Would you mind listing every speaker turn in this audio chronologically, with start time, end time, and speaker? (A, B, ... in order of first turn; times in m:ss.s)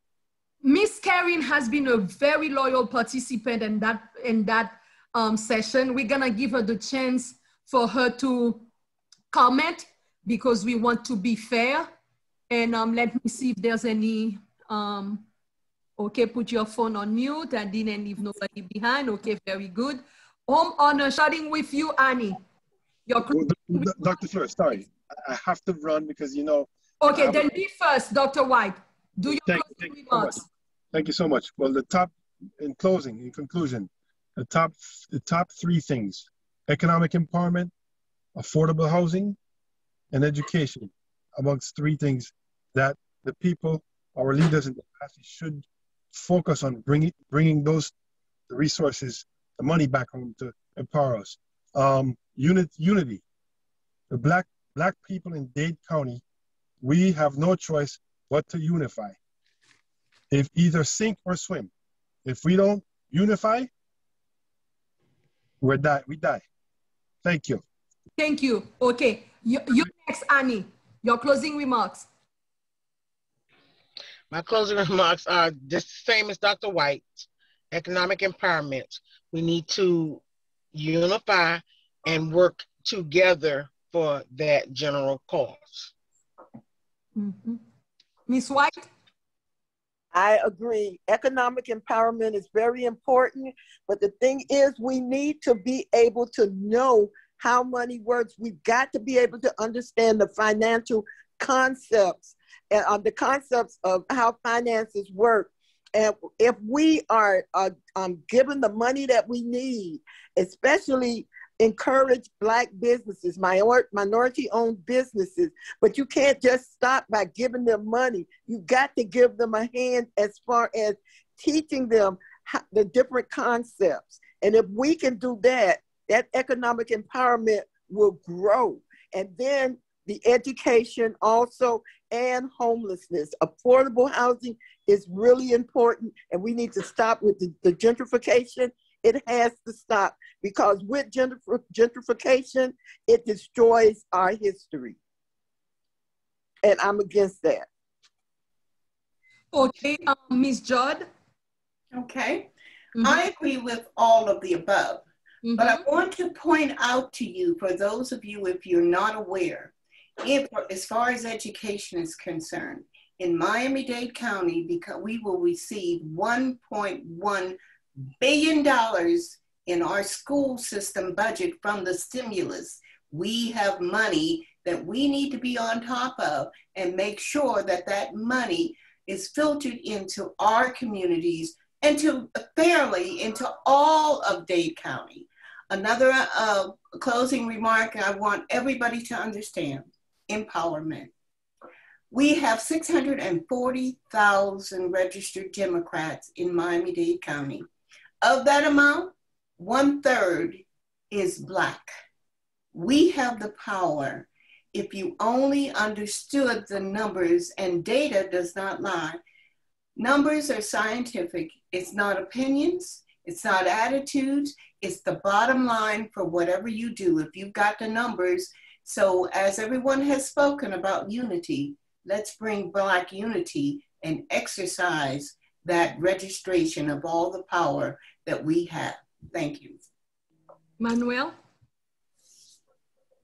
0:00.6-0:08.7 A
0:09.3-0:11.9 A
0:12.5-0:15.3 A
0:16.0-0:22.4 A
0:23.1-0:24.1 A
0:23.3-0:27.5 B
0:27.0-0:30.4 A
0:29.3-0:30.4 B
0:30.9-0:37.7 B
0:38.3-0:39.4 B
0:40.1-0:47.9 B
0:48.5-0:53.2 B
0:54.1-0:56.2 B
0:56.8-0:59.2 B
1:00.3-1:01.7 B
1:02.2-1:03.7 B
1:05.6-1:06.4 B
1:07.2-1:07.6 B
1:08.2-1:12.1 A
1:14.3-1:20.2 C
1:20.7-1:25.9 C
1:27.2-1:27.6 A
1:28.3-1:28.9 A
1:30.1-2:25.0 D
2:26.6-2:27.7 D
2:29.5-2:31.1 A
2:31.9-2:32.5 E
2:33.0-2:33.2 A
2:33.0-2:35.0 E
2:35.4-2:35.8 A
2:35.6-2:47.6 E
2:48.2-3:11.1 E
3:12.1-3:17.7 E
3:18.2-3:21.9 E
3:22.7-3:29.2 E
3:30.0-3:49.8 E
3:50.8-3:51.3 A